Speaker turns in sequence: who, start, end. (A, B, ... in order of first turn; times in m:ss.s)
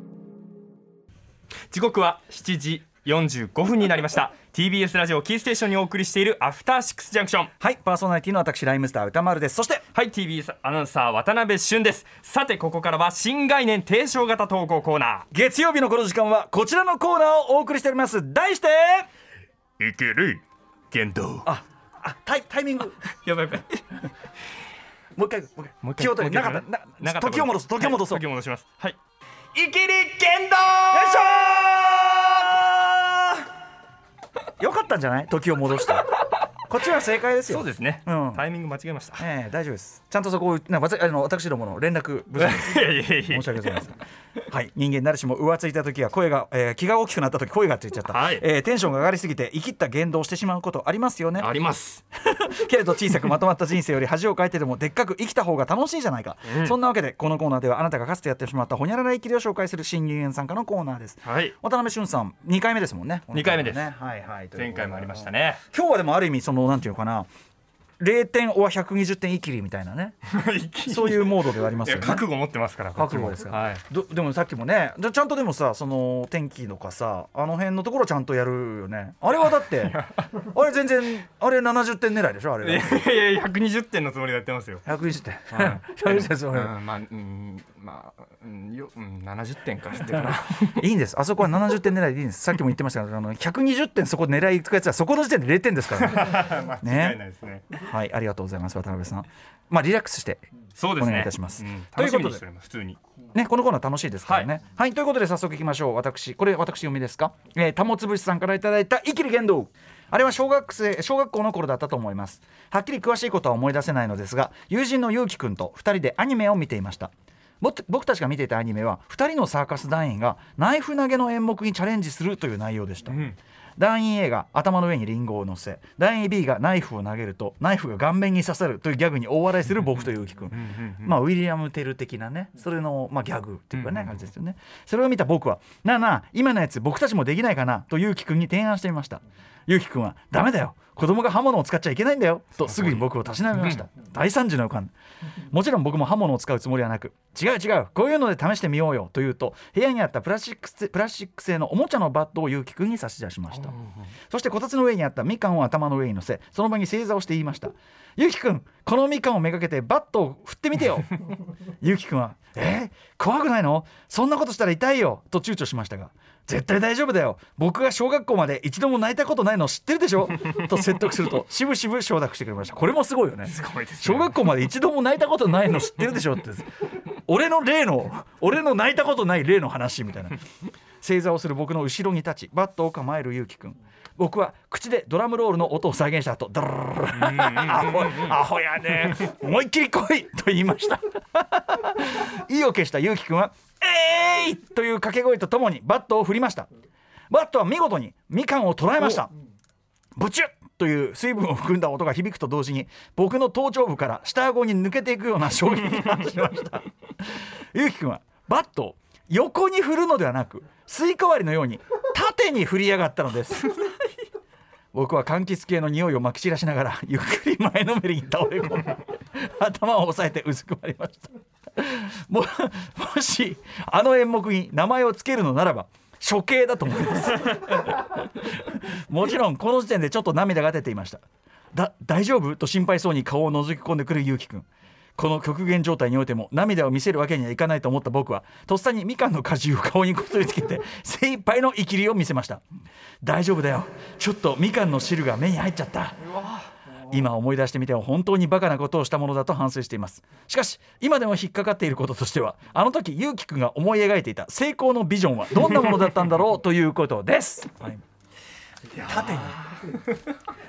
0:01.7-0:07.5 A
0:07.6-0:09.8 B
0:09.9-0:15.3 A
0:15.3-0:19.1 B
0:19.8-0:21.5 A
0:21.4-0:23.0 B
0:23.0-0:24.0 A
0:25.1-0:28.2 B
0:25.8-0:29.0 A
0:29.5-0:32.9 A
0:30.9-0:32.9 B
0:34.6-0:36.1 B
0:36.7-0:38.4 B
0:37.5-0:39.3 A
0:39.2-0:51.5 B
0:42.4-0:43.8 A
0:48.1-0:48.4 A
0:51.4-0:52.0 A
0:52.2-1:07.3 B
0:56.4-0:56.8 A
1:01.2-1:01.5 A
1:03.3-1:03.9 A
1:04.5-1:05.6 A
1:08.0-1:10.2 B
1:10.2-1:13.8 A
1:10.9-1:12.3 B
1:12.9-1:23.0 B
1:19.3-1:20.3 A
1:22.6-1:24.8 A
1:24.8-1:26.8 B
1:25.5-1:30.9 A
1:30.7-1:42.4 B
1:35.9-1:37.7 A
1:40.8-1:43.0 A
1:43.3-2:24.9 B
1:44.2-1:44.5 A
2:03.1-2:03.4 A
2:10.5-2:11.1 A
2:13.7-2:14.2 A
2:22.6-2:23.8 A
2:25.5-2:33.7 B
2:33.6-2:33.9 A
2:34.3-2:41.2 B
2:41.8-3:00.4 B
2:53.4-2:54.4 A
3:01.0-3:16.7 B
3:07.1-3:08.4 A
3:17.3-3:19.3 B
3:20.2-3:33.8 B
3:34.9-3:51.2 B
3:51.7-4:02.6 B
4:03.2-4:06.2 B
4:06.3-4:06.7 A
4:07.1-4:18.0 B
4:18.9-4:20.0 A
4:19.0-4:19.6 B